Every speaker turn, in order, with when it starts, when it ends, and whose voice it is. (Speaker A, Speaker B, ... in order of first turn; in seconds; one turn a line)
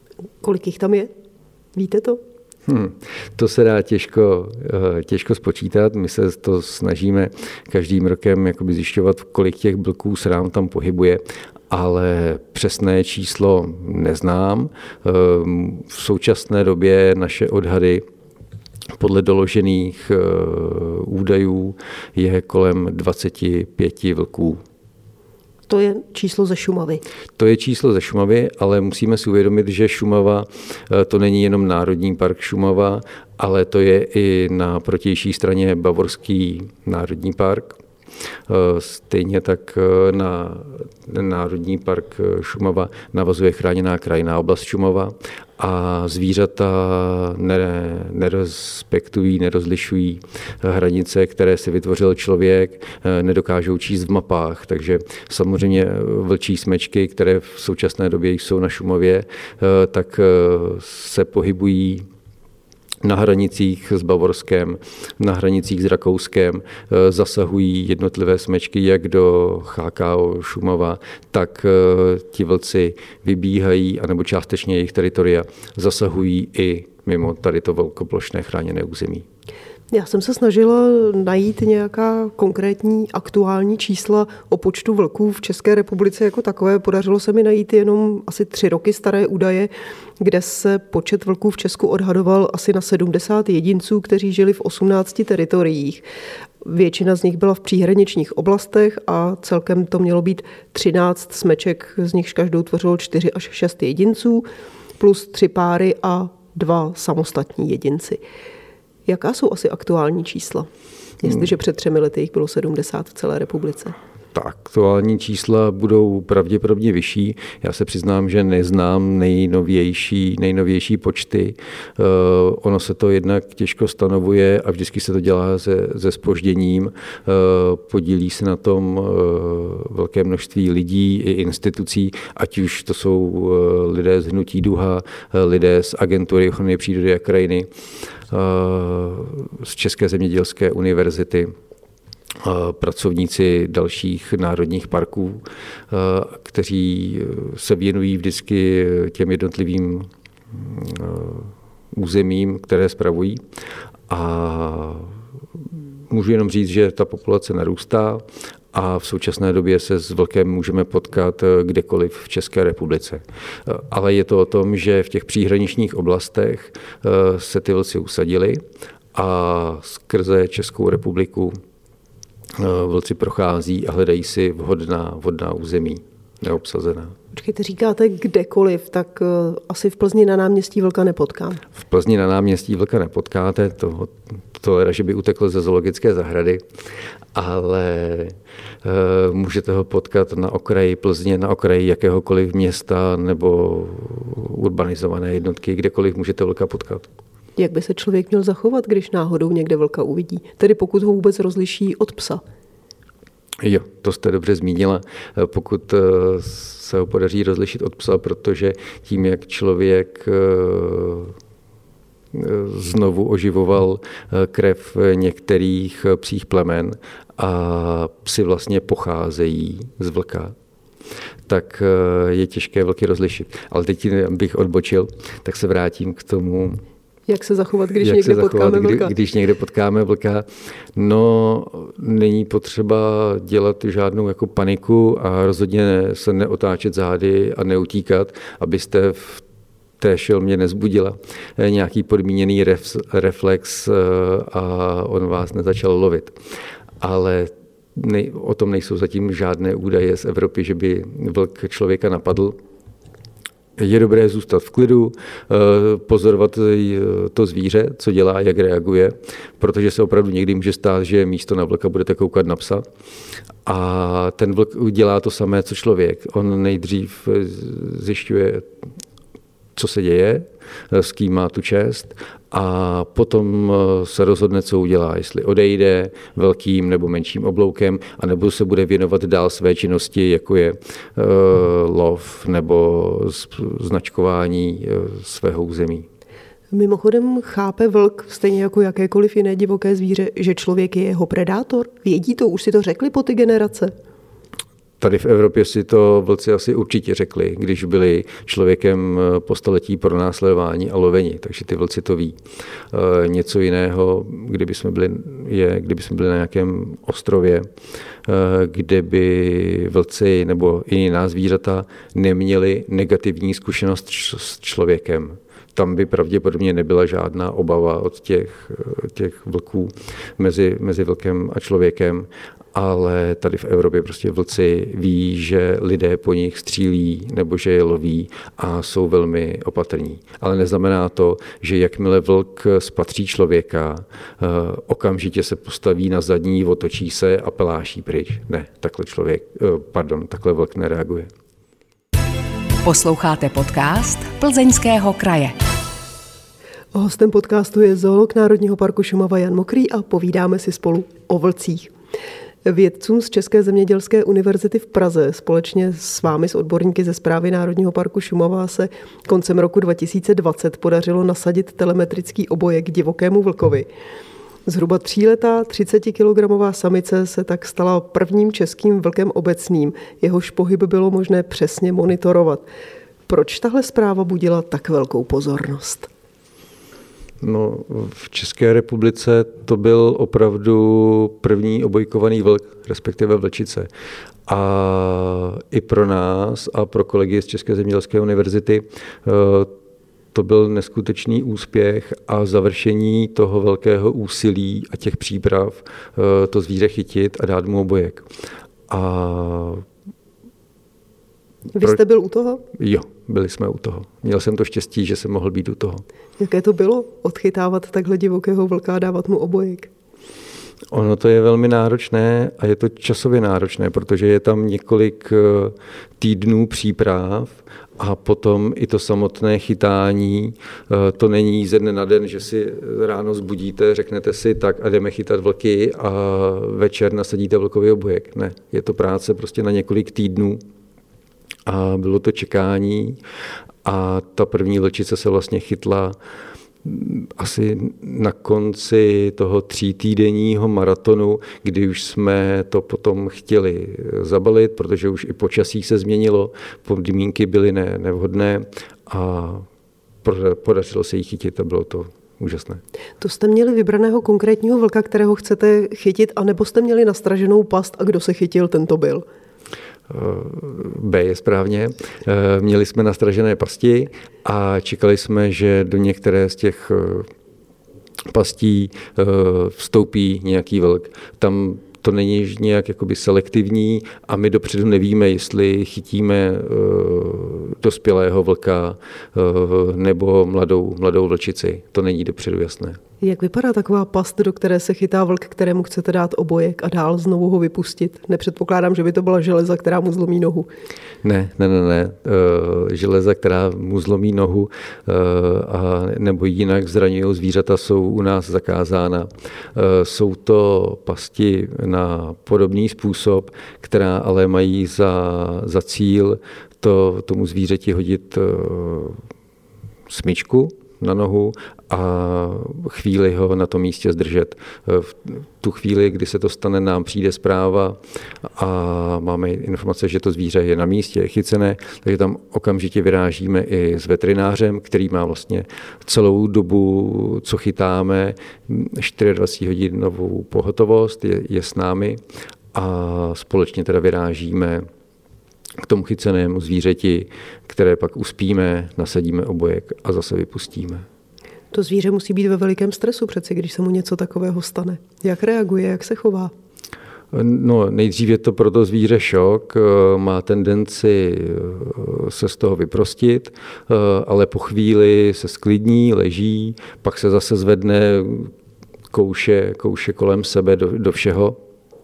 Speaker A: 0.4-1.1
Speaker A: 1.7-2.2
Speaker B: 2.6-18.0
Speaker B: 18.9-24.6
Speaker A: 25.7-27.0
Speaker B: 27.4-37.8
Speaker B: 38.5-62.0
Speaker B: 63.0-79.2
Speaker A: 79.9-96.0
Speaker A: 96.6-104.4
Speaker A: 105.0-108.2
Speaker A: 109.0-110.7
Speaker A: 111.2-113.9
Speaker B: 114.3-137.7
Speaker B: 138.3-141.5
Speaker B: 142.4-153.4
Speaker B: 154.1-155.1
Speaker B: 156.1-168.6
Speaker B: 169.1-171.6
Speaker B: 172.5-177.2
Speaker A: 177.3-181.6
Speaker B: 181.8-186.6
Speaker B: 187.3-197.1
Speaker A: 197.6-202.4
Speaker B: 203.6-211.3
Speaker B: 212.3-220.5
Speaker B: 221.5-226.8
Speaker A: 227.3-229.1
Speaker B: 228.0-239.4
Speaker B: 240.0-246.3
Speaker B: 247.0-252.6
Speaker B: 253.8-262.8
Speaker B: 263.6-268.7
Speaker B: 269.7-286.1
Speaker A: 286.7-293.9
Speaker B: 295.0-302.4
Speaker B: 302.9-307.7
Speaker B: 308.2-341.3
Speaker C: 342.8-345.6
Speaker A: 346.9-351.9
Speaker A: 352.6-363.9
Speaker A: 364.7-372.6
Speaker A: 373.3-376.1
Speaker B: 377.4-383.9
Speaker B: 384.5-389.7
Speaker B: 390.3-398.3
Speaker B: 398.9-399.8
Speaker A: 401.7-402.6
Speaker B: 402.7-406.0
Speaker A: 406.4-409.9
Speaker B: 410.9-430.6
Speaker B: 431.6-433.2
Speaker B: 433.8-436.1
Speaker B: 436.8-449.6
Speaker B: 450.2-452.8
Speaker A: 453.2-459.2
Speaker B: 460.1-467.3
Speaker B: 468.3-483.0
Speaker A: 483.2-490.7
Speaker B: 491.2-509.2
Speaker B: 510.1-532.2
Speaker B: 532.7-534.9
Speaker B: 535.8-541.0
Speaker A: 541.7-546.5
Speaker B: 547.3-558.5
Speaker B: 559.1-561.6